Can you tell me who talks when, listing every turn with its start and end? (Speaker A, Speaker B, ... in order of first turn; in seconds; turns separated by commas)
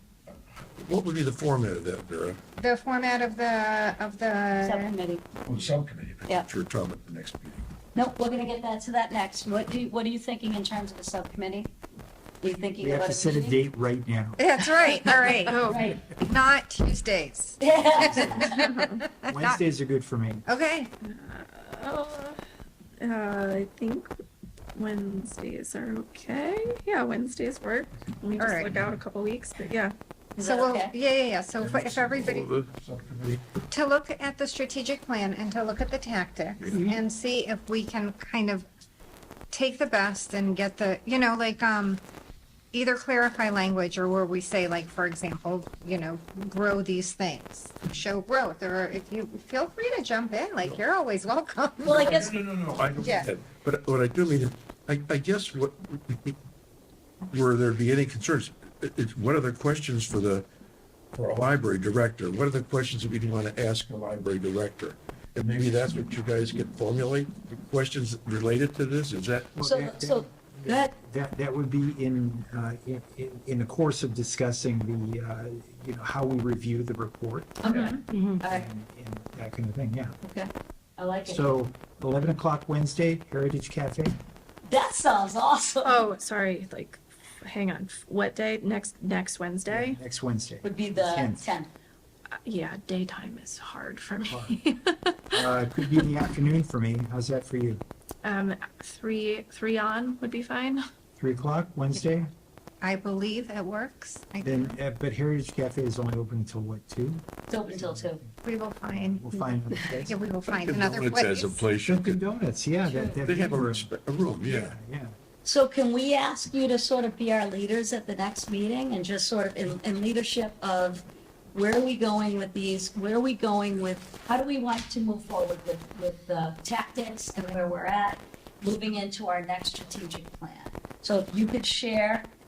Speaker A: 0.3-2.4, Speaker B: 2.6-4.9, Speaker C: 4.6-5.2, Speaker A: 5.4-7.6, Speaker C: 7.9-11.7, Speaker C: 12.4-13.6, Speaker D: 12.8-14.4, Speaker B: 14.4-15.6, Speaker E: 15.4-15.9, Speaker C: 15.6-16.0, Speaker B: 16.2-19.6, Speaker C: 17.6-18.7, Speaker D: 17.9-18.4, Speaker E: 18.5-19.0, Speaker D: 19.2-20.4, Speaker B: 20.5-20.9, Speaker E: 21.0-22.4, Speaker E: 23.0-24.1, Speaker E: 24.8-29.9, Speaker B: 28.4-28.8, Speaker C: 30.4-31.0, Speaker B: 30.4-32.5, Speaker A: 31.6-33.4, Speaker B: 33.7-38.7, Speaker A: 36.6-37.0, Speaker B: 39.5-42.0, Speaker B: 42.7-52.2, Speaker C: 51.8-52.4, Speaker A: 51.9-56.4, Speaker B: 53.0-53.3, Speaker A: 57.3-60.5, Speaker A: 61.1-69.5, Speaker D: 69.5-77.9, Speaker C: 69.6-70.9, Speaker C: 77.6-78.7, Speaker E: 77.7-78.4, Speaker D: 78.4-80.2, Speaker C: 80.2-81.5, Speaker D: 81.2-84.2, Speaker C: 84.7-86.1, Speaker E: 85.8-90.0, Speaker D: 89.7-91.5, Speaker C: 90.6-91.7, Speaker E: 92.4-95.4, Speaker D: 94.3-94.6, Speaker D: 95.3-97.8, Speaker E: 98.2-100.8, Speaker D: 101.2-102.3, Speaker B: 102.8-104.8, Speaker D: 104.4-108.1, Speaker C: 107.5-108.2, Speaker B: 108.4-109.4, Speaker D: 108.9-110.2, Speaker B: 110.1-111.6, Speaker A: 110.6-112.2, Speaker D: 111.8-115.1, Speaker C: 112.8-113.2, Speaker A: 113.2-114.7, Speaker C: 115.4-132.3